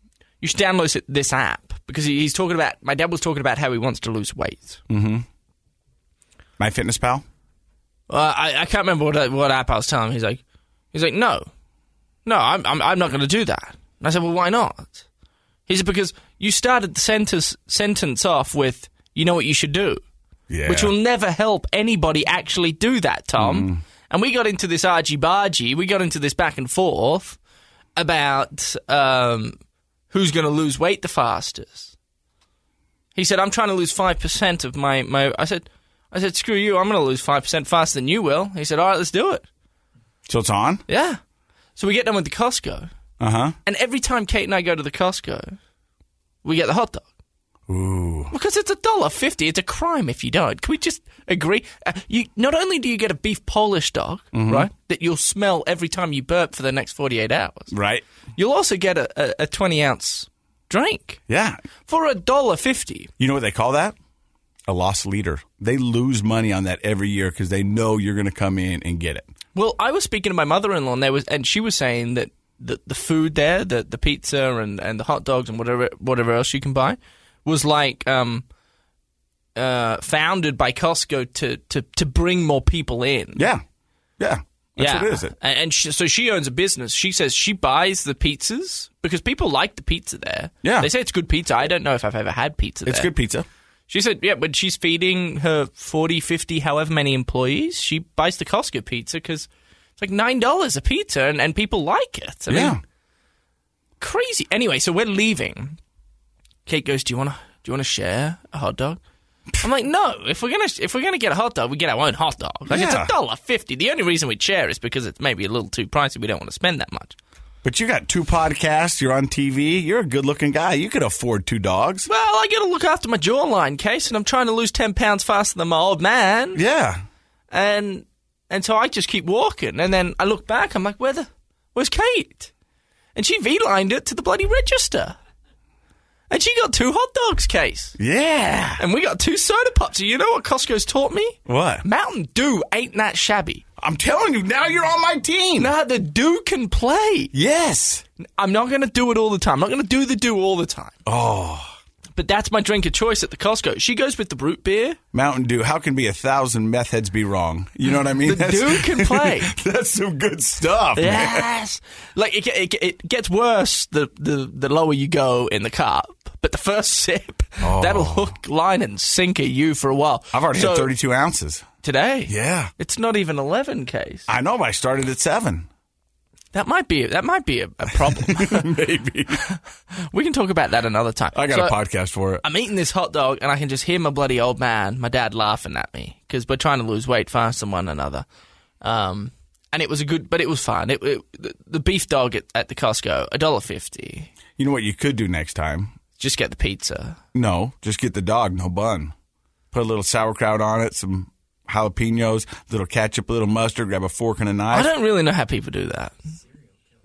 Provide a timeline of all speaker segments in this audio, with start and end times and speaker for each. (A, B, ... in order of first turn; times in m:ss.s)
0:00.4-0:04.8 A
0:04.9-0:05.2 B
0:06.6-0:07.2 B
0:08.1-0:10.4 A
0:10.9-0:11.5 A
0:12.2-0:15.0 A
0:15.7-0:20.0 A
0:20.5-0:20.9 B
0:20.6-0:27.4 A
0:23.4-0:23.8 B
0:28.0-0:29.6 A
0:30.1-0:31.9 A
0:33.1-0:39.4 A
0:40.3-0:40.8 B
0:40.9-0:41.2 A
0:41.8-0:42.9 A
0:43.2-0:43.6 B
0:43.6-0:45.6 A
0:46.4-0:47.1 A
0:47.7-0:48.3 B
0:48.3-0:57.7 A
0:54.3-0:54.7 B
0:57.7-0:58.0 B
0:58.4-1:01.2 A
1:01.3-1:01.6 B
1:01.9-1:03.1 A
1:03.2-1:04.0 B
1:04.7-1:09.3 B
1:09.5-1:18.4 A
1:19.5-1:23.5 A
1:23.4-1:23.6 B
1:24.2-1:25.3 B
1:24.8-1:33.1 A
1:30.6-1:30.9 B
1:32.8-1:33.5 B
1:33.9-1:42.8 A
1:42.5-1:42.8 B
1:44.0-1:45.8 A
1:46.6-1:49.0 A
1:49.6-1:57.2 A
1:52.7-1:53.1 B
1:57.6-2:02.1 B
2:02.1-2:06.6 A
2:06.5-2:07.0 B
2:07.5-2:12.5 A
2:13.1-2:15.2 A
2:16.3-2:18.0 A
2:18.0-2:18.8 B
2:18.8-2:23.6 A
2:21.4-2:21.8 B
2:23.8-2:25.7 B
2:25.6-2:27.3 A
2:27.3-2:28.0 B
2:28.2-2:31.0 A
2:31.0-2:31.7 B
2:32.2-2:35.0 A
2:35.1-2:41.5 B
2:38.2-2:39.5 A
2:41.0-2:50.9 A
2:47.6-2:48.3 B
2:50.3-2:51.6 B
2:51.8-2:54.3 A
2:52.3-2:52.7 B
2:54.3-2:55.7 B
2:56.5-2:58.7 A
2:58.1-2:59.4 B
2:59.3-3:01.8 A
3:01.3-3:02.4 B
3:02.4-3:08.2 A
3:08.8-3:14.3 A
3:14.6-3:15.9 B
3:16.2-3:17.2 A
3:17.3-3:19.1 B
3:19.7-3:24.9 B
3:24.7-3:26.1 A